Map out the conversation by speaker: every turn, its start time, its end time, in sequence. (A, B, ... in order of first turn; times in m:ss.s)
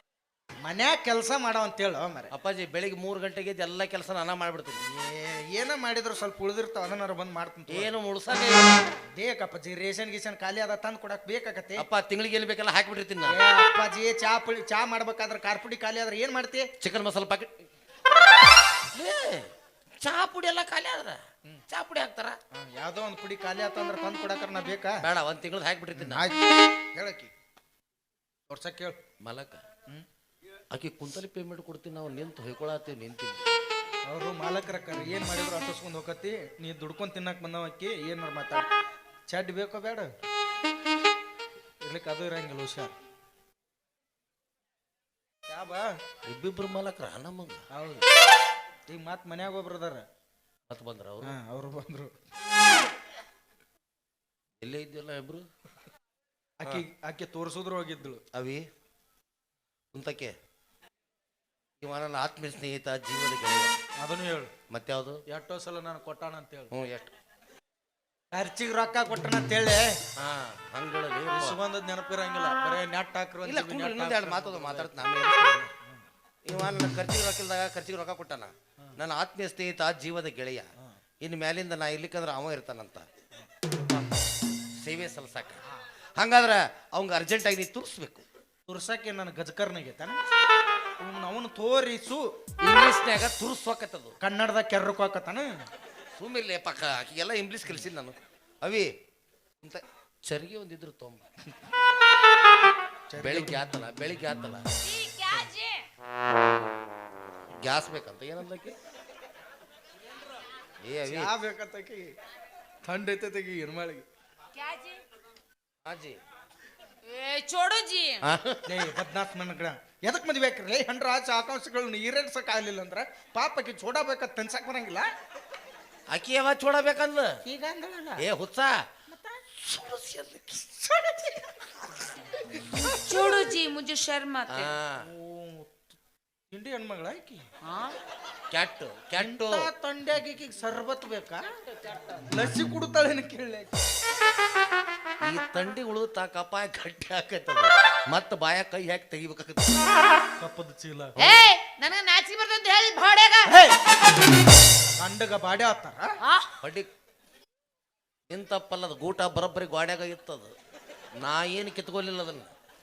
0:00.6-0:02.3 A
0:02.3-0:04.8 B
0:04.8-0:07.9 A
0:07.7-0:08.9 B
0:09.2-0:11.8 A
0:11.8-0:13.4 B
0:13.3-0:16.7 A
0:16.8-0:17.5 B
0:18.9-0:22.4 B
0:22.5-0:25.1 A
0:25.0-0:26.3 B
0:25.9-0:26.4 A
0:26.9-0:27.3 A
0:28.5-0:29.0 A
0:29.2-0:29.6 B
0:30.7-0:33.5 B
0:34.1-0:38.6 A
0:39.3-0:40.1 A
0:41.8-0:42.9 A
0:45.5-0:45.9 A
0:46.3-0:47.6 B
0:47.7-0:48.0 A
0:48.9-0:50.0 A
0:50.7-0:51.4 B
0:51.2-0:52.1 A
0:54.6-0:55.4 B
0:56.6-0:58.2 A
0:58.3-0:58.6 B
0:59.9-1:00.3 B
1:01.8-1:03.8 B
1:04.0-1:04.5 A
1:04.7-1:05.2 B
1:05.3-1:06.7 A
1:06.7-1:07.1 B
1:08.3-1:10.0 A
1:10.2-1:11.6 B
1:11.3-1:15.0 A
1:13.4-1:15.7 B
1:16.4-1:20.7 B
1:21.2-1:23.0 B
1:23.8-1:24.0 B
1:24.8-1:25.6 B
1:26.2-1:28.2 B
1:28.7-1:30.2 A
1:31.0-1:32.2 A
1:32.6-1:34.2 B
1:34.2-1:35.6 A
1:36.2-1:38.9 B
1:39.6-1:41.2 B
1:43.1-1:43.6 A
1:43.2-1:44.6 B
1:44.8-1:45.8 C
1:47.6-1:48.8 B
1:50.8-1:51.3 B
1:51.0-1:52.1 A
1:52.8-1:54.0 A
1:54.5-1:55.0 C
1:55.8-1:56.2 B
1:57.0-1:58.2 C
1:58.2-1:58.6 B
1:58.6-2:05.1 A
2:06.1-2:07.3 B
2:07.4-2:08.2 A
2:08.2-2:08.8 B
2:09.1-2:09.4 A
2:09.6-2:11.1 B
2:11.0-2:11.4 A
2:12.7-2:14.7 C
2:14.5-2:15.1 B
2:15.0-2:15.8 A
2:16.5-2:17.4 A
2:17.6-2:18.0 C
2:18.5-2:19.6 B
2:19.2-2:21.4 A
2:22.2-2:23.8 A
2:25.2-2:29.8 B
2:30.4-2:31.1 A
2:31.1-2:31.5 B
2:31.2-2:33.5 C
2:33.5-2:33.7 A
2:35.0-2:36.1 A
2:36.2-2:36.6 C
2:36.6-2:36.9 B
2:38.3-2:40.5 B
2:41.2-2:42.5 B